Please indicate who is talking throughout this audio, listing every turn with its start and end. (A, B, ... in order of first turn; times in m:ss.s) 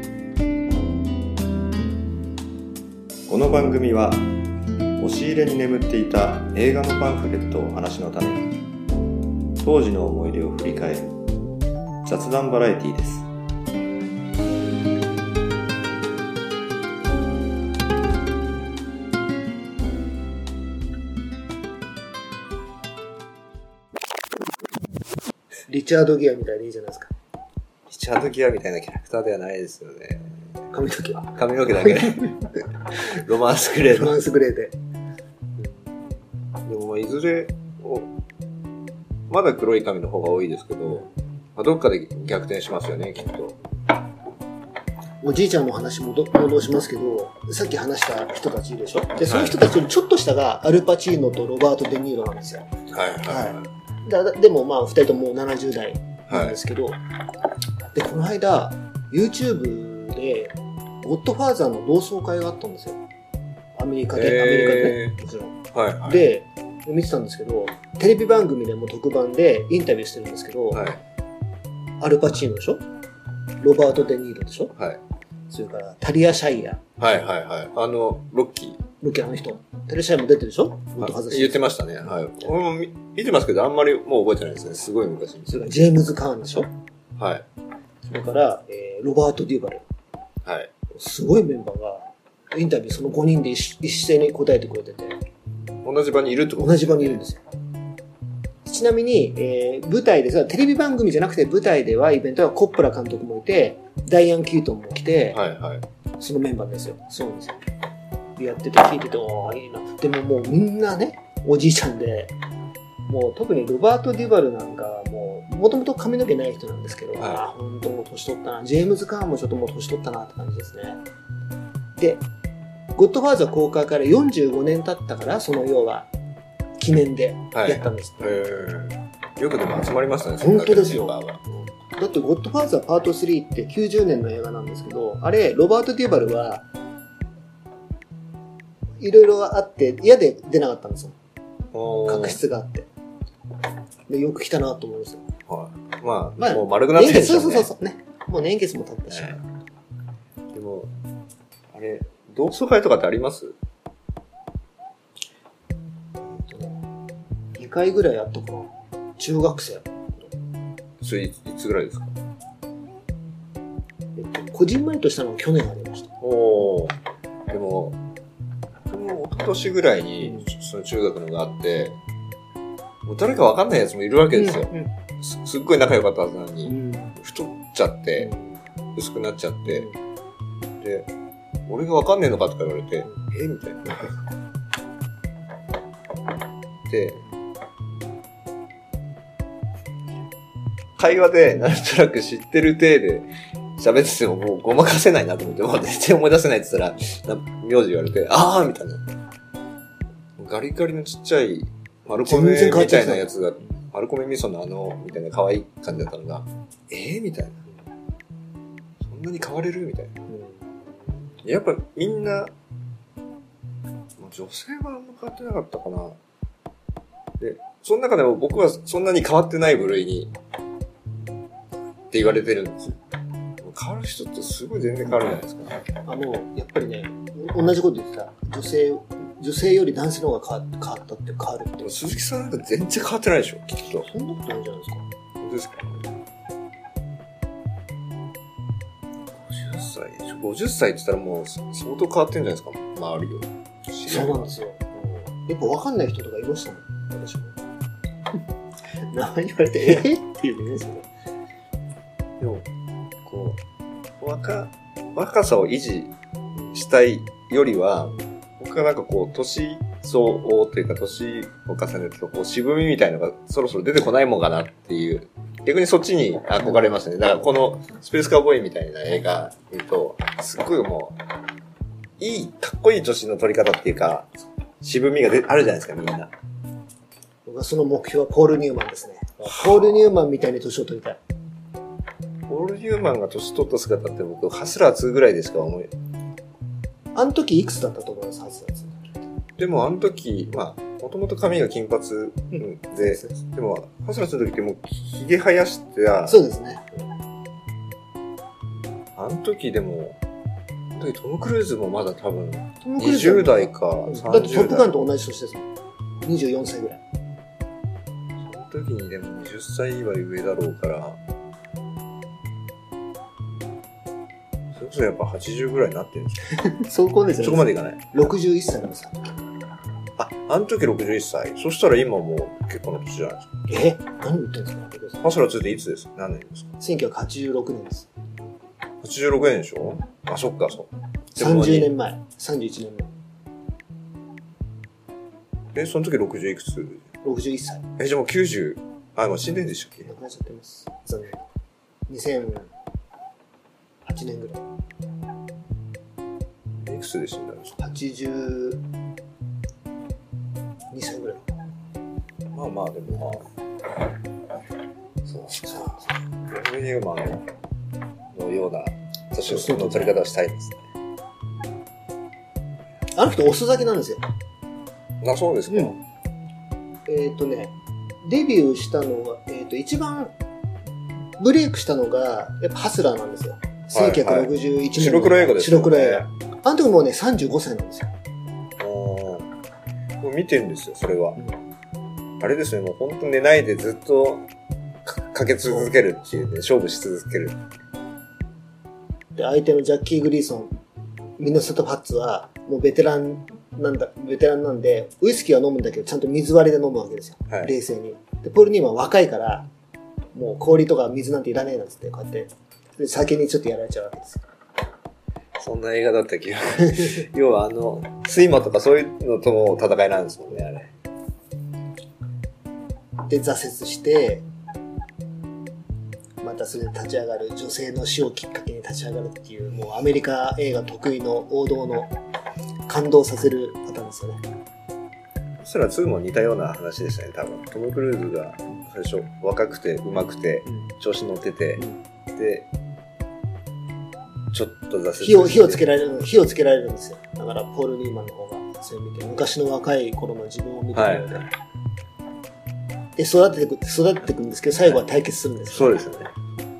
0:03.3-0:04.3 A
0:05.0-0:08.5 A
0:09.6-0:11.2 A
0:12.0-0:13.3 A
0:25.7-0:27.1 B
0:27.9-0:30.3 A
0:30.7-0:32.3 B
0:31.3-0:34.2 A
0:33.9-0:34.8 B
0:36.6-0:38.1 A
0:39.3-0:43.6 A
0:45.2-0:57.0 B
0:49.2-0:49.6 A
0:52.9-0:53.7 A
0:56.3-0:56.6 A
0:57.8-1:03.0 B
1:03.8-1:10.8 B
1:04.1-1:05.2 A
1:05.7-1:06.3 A
1:10.7-1:11.0 A
1:12.0-1:12.8 B
1:13.6-1:14.7 B
1:15.5-1:16.9 B
1:17.0-1:18.8 A
1:19.0-1:21.7 B
1:21.0-1:25.8 A
1:25.5-1:26.7 B
1:27.2-1:27.4 A
1:28.1-1:29.8 B
1:30.4-1:30.7 A
1:30.9-1:35.2 B
1:35.8-1:37.2 A
1:36.6-1:37.4 B
1:38.6-1:45.4 B
1:45.3-1:45.8 A
1:46.2-1:47.6 B
1:48.4-1:52.3 B
1:53.1-2:01.0 B
2:02.0-2:02.2 B
2:03.0-2:06.1 B
2:06.8-2:08.3 B
2:07.5-2:11.4 A
2:10.4-2:16.7 B
2:19.0-2:21.2 B
2:21.7-2:22.4 A
2:22.0-2:22.9 B
2:24.1-2:25.2 B
2:25.5-2:27.7 A
2:26.4-2:29.4 B
2:29.1-2:29.4 A
2:30.5-2:30.9 A
2:31.7-2:33.6 A
2:36.2-2:36.8 B
2:37.5-2:40.3 B
2:41.0-2:42.1 A
2:44.2-2:46.1 B
2:46.2-2:47.0 A
2:47.5-2:48.0 A
2:48.9-2:52.0 A
2:50.2-2:50.5 B
2:53.0-2:58.3 A
2:54.4-2:54.9 B
2:56.7-2:57.2 B
2:58.2-2:58.6 B
2:59.0-2:59.9 A
2:59.7-2:59.9 B
3:00.8-3:01.1 A
3:01.7-3:04.1 A
3:06.9-3:07.2 A
3:11.0-3:19.0 A
3:20.4-3:27.6 A
3:22.2-3:23.3 B
3:29.0-3:30.1 A
3:30.3-3:30.8 B
3:31.4-3:32.5 A
3:34.2-3:36.2 A
3:37.4-3:40.3 A
3:42.1-3:43.0 A
3:43.6-3:45.8 A
3:46.0-3:51.9 B
3:51.8-3:54.1 A
3:54.0-3:55.0 B
3:55.4-3:56.0 A
3:59.4-4:04.5 A
4:04.1-4:07.6 B
4:09.1-4:11.1 B
4:12.4-4:12.7 A
4:13.2-4:13.6 A
4:14.2-4:16.1 A
4:16.7-4:31.2 A
4:26.6-4:27.0 B
4:32.2-4:36.3 A
4:37.4-4:41.2 B
4:39.4-4:40.1 A
4:42.5-4:45.9 A
4:47.1-4:49.2 B
4:49.6-4:56.4 A
4:52.5-4:53.4 B
4:56.3-4:57.1 B
4:59.2-5:00.2 A
5:00.9-5:04.9 A
5:02.8-5:05.7 B
5:06.2-5:07.0 B
5:08.4-5:11.2 A
5:14.8-5:16.4 A
5:16.6-5:19.4 B
5:17.4-5:18.3 A
5:20.2-5:23.5 A
5:23.7-5:25.2 B
5:25.2-5:26.7 A
5:26.8-5:28.1 B
5:29.0-5:31.9 A
5:31.4-5:33.1 B
5:35.7-5:37.0 A
5:37.2-5:37.8 B
5:38.0-5:40.1 A
5:40.0-5:41.5 B
5:42.1-5:42.7 B
5:44.0-5:44.6 B
5:46.8-5:47.8 A
5:47.8-5:48.8 B
5:50.9-5:51.4 B
5:52.5-5:53.5 A
5:55.2-5:57.5 A
5:55.7-5:56.0 B
5:58.3-6:00.8 A
5:59.4-6:00.2 B
6:03.1-6:04.2 B
6:05.2-6:06.0 A
6:05.7-6:05.9 B
6:07.1-6:10.3 B
6:11.4-6:18.1 B
6:13.9-6:16.3 A
6:18.8-6:19.5 A
6:20.2-6:21.4 A
6:22.4-6:24.5 A
6:25.0-6:27.6 A
6:29.4-6:30.7 B
6:31.4-6:39.7 B
6:40.3-6:44.4 B
6:45.6-6:50.9 A
6:53.3-6:54.4 B
6:56.4-7:02.1 B
7:02.9-7:04.4 B
7:05.6-7:12.7 A
7:14.5-7:15.8 A
7:15.2-7:21.5 B
7:20.9-7:21.4 A
7:23.2-7:26.0 B
7:25.7-7:26.3 A